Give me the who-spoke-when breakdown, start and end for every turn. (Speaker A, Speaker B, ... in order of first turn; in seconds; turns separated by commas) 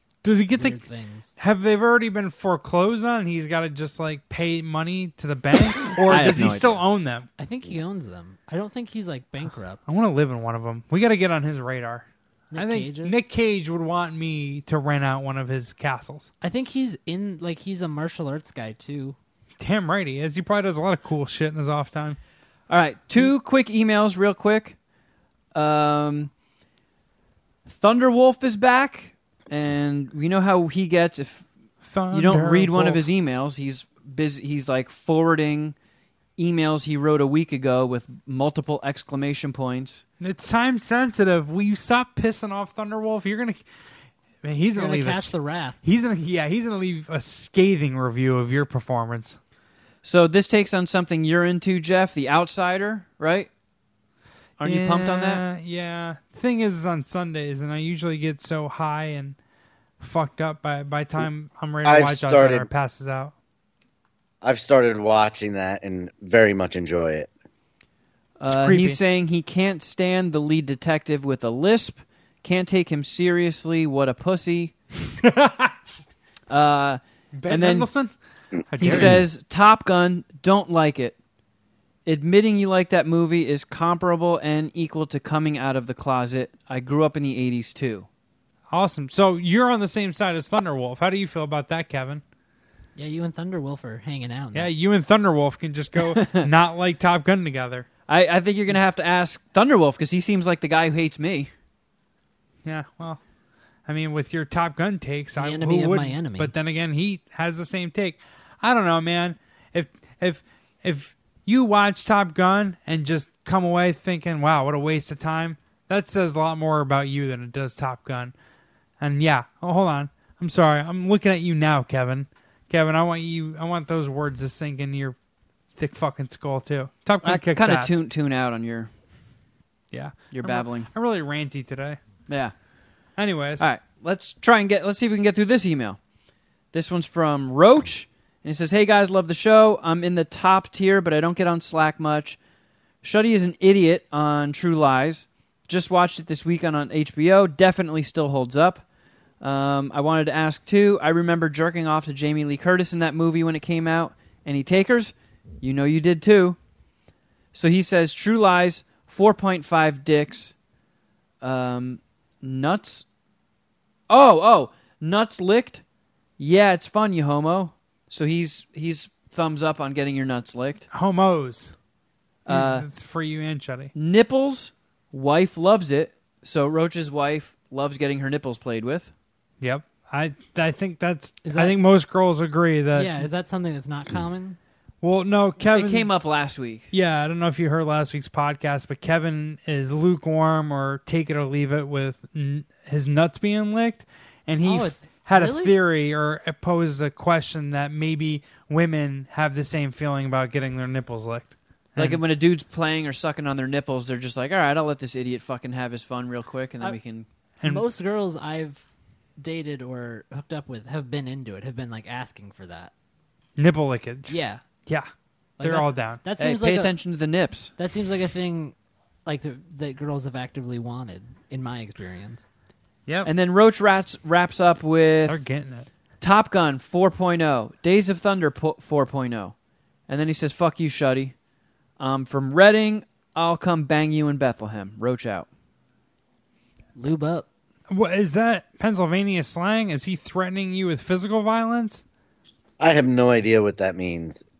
Speaker A: 0.2-0.8, Speaker B: 0.5-1.3, Speaker A: 1.4-7.3, Speaker C: 6.1-6.8, Speaker B: 7.4-9.8, Speaker A: 9.9-16.3, Speaker B: 12.5-13.2, Speaker B: 16.4-19.1, Speaker A: 19.6-22.2, Speaker C: 22.7-24.8, Speaker C: 25.5-26.3, Speaker C: 27.7-31.4, Speaker A: 31.8-33.0, Speaker C: 32.1-35.7, Speaker C: 36.4-40.0, Speaker A: 40.2-43.6, Speaker A: 44.4-49.4, Speaker B: 44.7-45.8, Speaker C: 50.0-53.5, Speaker C: 54.6-55.4, Speaker A: 54.6-59.4, Speaker A: 60.0-63.3, Speaker D: 61.8-62.7, Speaker D: 64.4-67.3, Speaker C: 68.4-74.7, Speaker A: 68.5-69.0, Speaker A: 75.2-75.7, Speaker C: 76.5-77.9, Speaker A: 77.3-78.2, Speaker A: 78.7-79.2, Speaker C: 78.8-81.1, Speaker C: 82.0-88.1, Speaker A: 88.7-92.2, Speaker B: 93.0-94.7, Speaker A: 94.5-97.8, Speaker C: 96.1-96.5, Speaker C: 98.1-101.5, Speaker A: 102.6-103.2, Speaker A: 103.8-118.3, Speaker B: 105.4-106.5, Speaker A: 119.0-125.2, Speaker A: 125.8-128.0, Speaker C: 127.2-128.9, Speaker A: 129.9-132.0, Speaker C: 130.3-130.9, Speaker C: 132.3-132.5, Speaker A: 133.2-133.7, Speaker C: 133.6-136.0, Speaker C: 136.7-142.4, Speaker C: 143.0-148.8, Speaker C: 149.4-156.6, Speaker C: 157.5-160.5, Speaker C: 161.4-163.0, Speaker C: 164.1-165.8, Speaker C: 166.4-170.9, Speaker A: 170.9-171.7, Speaker C: 172.4-172.8, Speaker A: 172.5-173.9, Speaker C: 173.9-179.1, Speaker A: 179.6-183.2, Speaker B: 181.4-181.8, Speaker B: 182.9-184.6, Speaker A: 185.0-186.1, Speaker C: 185.6-186.9, Speaker A: 186.9-202.2, Speaker B: 194.6-195.7, Speaker C: 202.0-207.3, Speaker B: 207.6-208.8, Speaker B: 209.4-212.9, Speaker A: 213.6-215.1, Speaker B: 214.3-214.6, Speaker B: 215.6-216.9, Speaker A: 215.6-216.2, Speaker C: 216.4-217.7, Speaker B: 217.8-218.7, Speaker B: 219.2-222.4, Speaker C: 223.2-225.4, Speaker A: 225.3-225.9, Speaker C: 226.2-229.5, Speaker C: 230.1-231.3, Speaker C: 232.0-235.5, Speaker B: 236.9-237.4, Speaker A: 237.9-242.0, Speaker D: 242.8-244.4